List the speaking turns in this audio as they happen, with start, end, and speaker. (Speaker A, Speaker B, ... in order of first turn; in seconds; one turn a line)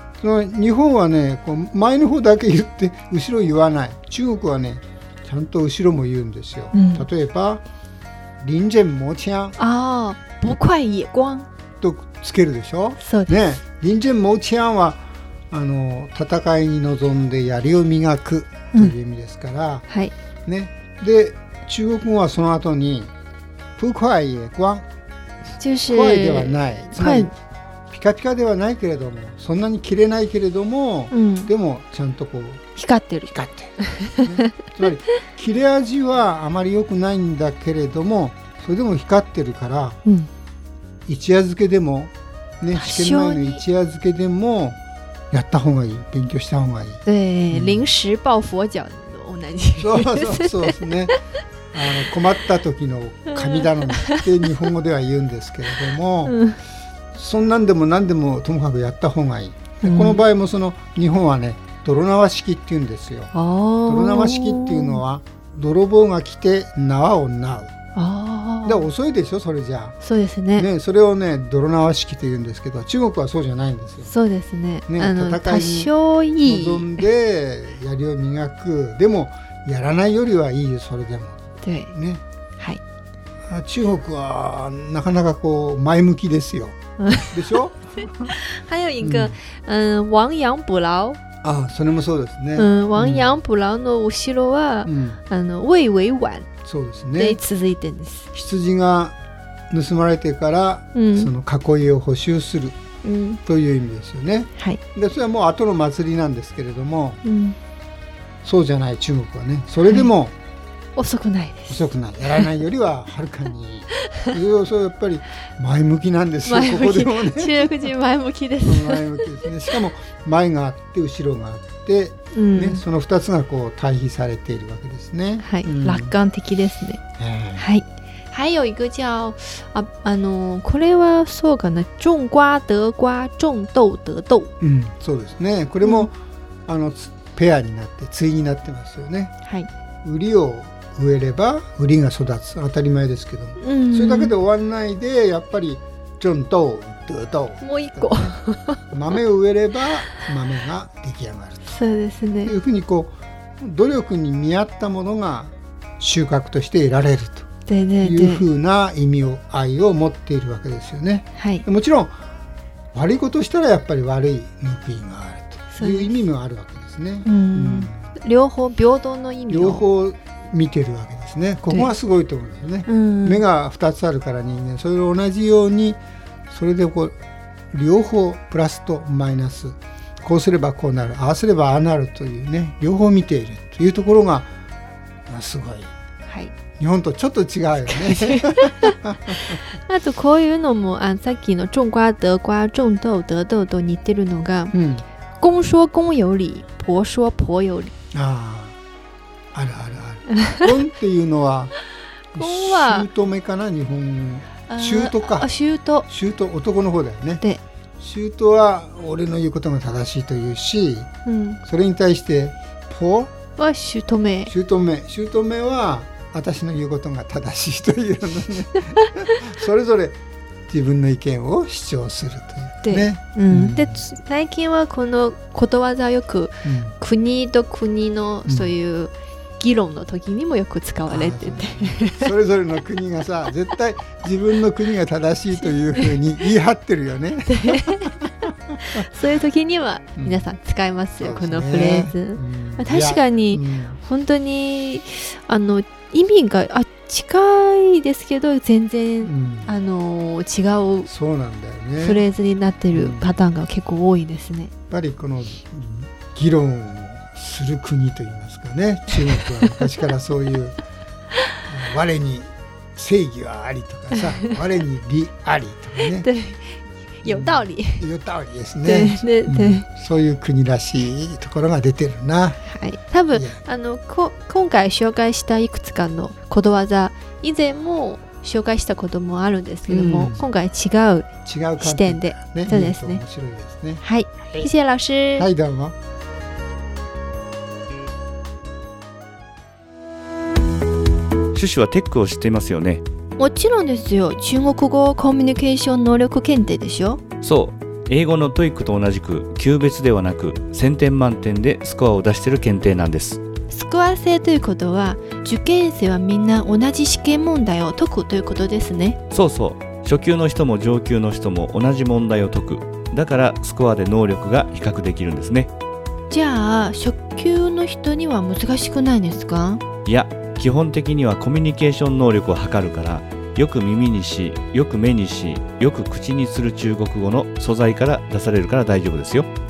Speaker A: 0.2-7.6
Speaker B: 6.7-7.1
Speaker A: 8.4-9.6
Speaker B: 9.6-11.5
Speaker A: 11.8-19.9
Speaker B: 13.0-13.3
Speaker A: 20.4-23.1
Speaker A: 23.8-24.9
Speaker B: 25.6-27.3
Speaker A: 25.9-27.3
Speaker A: 27.9-32.6
Speaker B: 31.1-31.5
Speaker B: 32.8-34.5
Speaker A: 33.3-40.0
Speaker A: 41.1-44.8
Speaker B: 42.7-43.6
Speaker A: 45.3-47.9
Speaker B: 47.1-51.1
Speaker A: 49.8-51.2
Speaker A: 51.7-56.4
Speaker B: 53.4-54.2
Speaker B: 56.3-56.6
Speaker A: 57.1-63.3
Speaker B: 59.8-60.2
Speaker B: 63.3-65.0
Speaker A: 63.9-67.7
Speaker B: 68.0-68.9
Speaker A: 68.6-70.0
Speaker B: 70.0-70.7
Speaker A: 70.5-74.1
Speaker B: 74.0-77.0
Speaker A: 74.9-75.9
Speaker A: 76.5-82.2
Speaker B: 81.6-81.9
Speaker A: 83.5-88.4
Speaker B: 87.0-87.6
Speaker B: 88.3-91.2
Speaker A: 89.0-89.4
Speaker A: 91.4-93.4
Speaker B: 92.6-96.5
Speaker A: 94.8-95.2
Speaker A: 96.6-97.4
Speaker B: 97.2-98.3
Speaker A: 98.3-99.2
Speaker A: 99.7-102.8
Speaker B: 100.9-101.3
Speaker B: 103.0-103.4
Speaker A: 103.5-107.2
Speaker B: 104.6-104.8
Speaker B: 107.2-107.6
Speaker A: 108.4-110.3
Speaker B: 111.0-112.5
Speaker A: 111.7-117.9
Speaker B: 113.9-114.4
Speaker B: 116.4-119.8
Speaker A: 118.6-126.2
Speaker B: 122.3-122.8
Speaker B: 125.4-134.5
Speaker A: 127.1-127.7
Speaker A: 134.6-136.2
Speaker B: 135.8-136.1
Speaker A: 136.7-139.3
Speaker B: 139.4-139.7
Speaker A: 140.0-148.3
Speaker B: 143.6-144.4
Speaker B: 147.6-148.8
Speaker A: 148.9-151.7
Speaker B: 151.7-152.5
Speaker A: 152.4-157.5
Speaker B: 157.7-158.4
Speaker A: 158.0-162.1
Speaker B: 161.4-161.7
Speaker A: 162.9-168.1
Speaker B: 165.7-166.2
Speaker B: 167.2-169.8
Speaker A: 169.5-177.2
Speaker B: 172.9-173.4
Speaker A: 177.7-184.5
Speaker A: 185.3-185.9
Speaker B: 186.3-186.6
Speaker A: 186.7-189.6
Speaker B: 188.0-194.7
Speaker A: 194.7-195.1
Speaker B: 195.4-197.9
Speaker A: 198.1-198.8
Speaker A: 199.5-201.7
Speaker A: 202.3-205.5
Speaker B: 202.4-203.1
Speaker B: 204.7-206.1
Speaker A: 206.0-207.4
Speaker A: 208.0-211.1
Speaker B: 211.2-211.6
Speaker A: 211.6-213.4
Speaker B: 213.6-214.5
Speaker A: 214.5-224.1
Speaker B: 222.8-232.3
Speaker A: 226.6-227.0
Speaker A: 228.4-228.7
Speaker A: 231.1-239.0
Speaker B: 235.6-236.2
Speaker B: 237.5-251.1
Speaker A: 240.2-240.5
Speaker A: 241.2-244.0
Speaker A: 249.2-249.8
Speaker A: 251.1-252.2
Speaker B: 252.0-254.7
Speaker A: 252.9-253.4
Speaker A: 254.9-260.8
Speaker B: 259.4-259.9
Speaker A: 261.6-266.3
Speaker B: 266.1-268.1
Speaker A: 267.2-272.6
Speaker B: 268.9-269.9
Speaker B: 272.6-283.2
Speaker A: 273.3-273.6
Speaker A: 279.9-280.4
Speaker A: 281.4-284.7
Speaker B: 284.0-285.5
Speaker A: 285.4-285.9
Speaker C: 291.5-293.0
Speaker B: 293.4-297.2
Speaker C: 297.4-303.4
Speaker B: 303.7-309.2
Speaker C: 309.3-315.7
Speaker B: 316.3-319.8
Speaker C: 320.1-329.5